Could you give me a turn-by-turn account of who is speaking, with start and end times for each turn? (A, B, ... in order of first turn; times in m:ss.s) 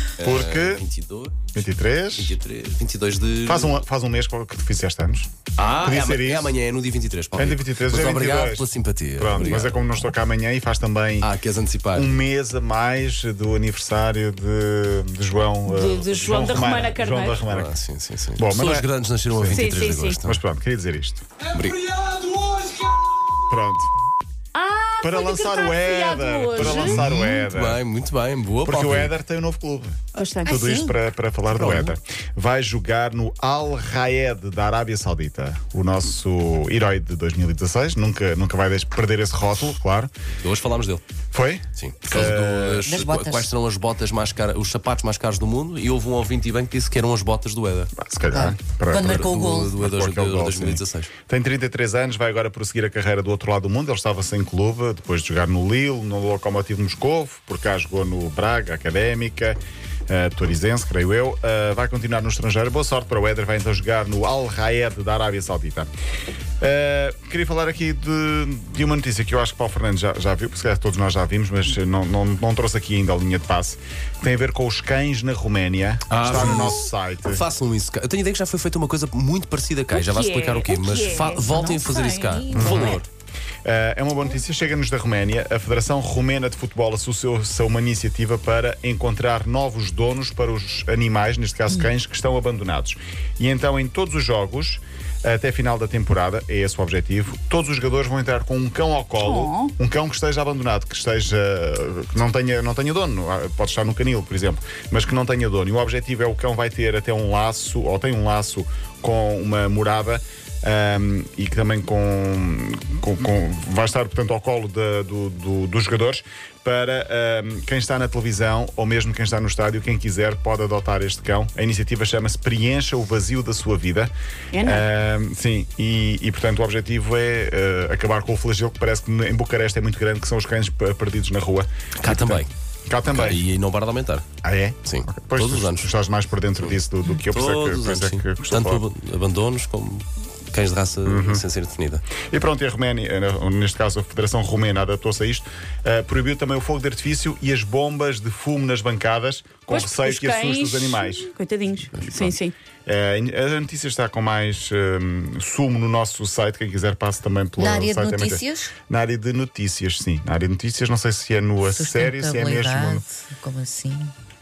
0:00.2-0:01.6 A
0:00.2-0:00.8 B
0:01.5-0:02.4 B
0:02.2-0:03.8 A
0:03.4-0:06.6 B
0:05.6-0:09.9 A
0:07.4-0:11.3 B
0:11.2-0:12.2 A
0:11.9-0:17.7 B
0:15.7-0:17.4 C
0:17.4-0:20.4 A
0:18.4-0:19.6 B
0:19.5-0:20.2 C
0:20.2-0:21.2 B
0:21.5-0:22.7 A
0:23.5-0:23.9 B
0:24.5-0:27.4 C
0:25.0-0:27.8 B
0:26.6-0:29.1 A
0:28.6-0:40.1 B
0:30.1-0:30.8 C
0:30.5-0:30.9 D
0:31.5-0:31.9 A
0:40.4-0:41.0 A
0:41.3-0:43.0 B
0:41.7-0:47.9 A
0:42.8-0:43.5 D
0:48.0-1:05.9 B
0:48.3-0:49.7 D
0:49.0-0:51.1 A
1:06.6-1:17.4 B
1:16.1-1:23.0 A
1:19.9-1:21.6 C
1:21.1-1:23.0 D
1:22.5-1:23.0 B
1:23.6-2:13.4 B
1:39.2-1:39.7 C
2:04.5-2:04.9 C
2:12.0-2:12.5 A
2:13.1-2:14.2 A
2:14.4-2:18.8 B
2:14.8-2:15.9 A
2:16.6-2:22.0 A
2:21.0-2:21.4 B
2:22.2-2:31.3 B
2:29.7-2:32.5 C
2:31.9-2:32.2 A
2:32.8-2:43.0 B
2:37.6-2:38.7 D
2:41.6-2:44.1 D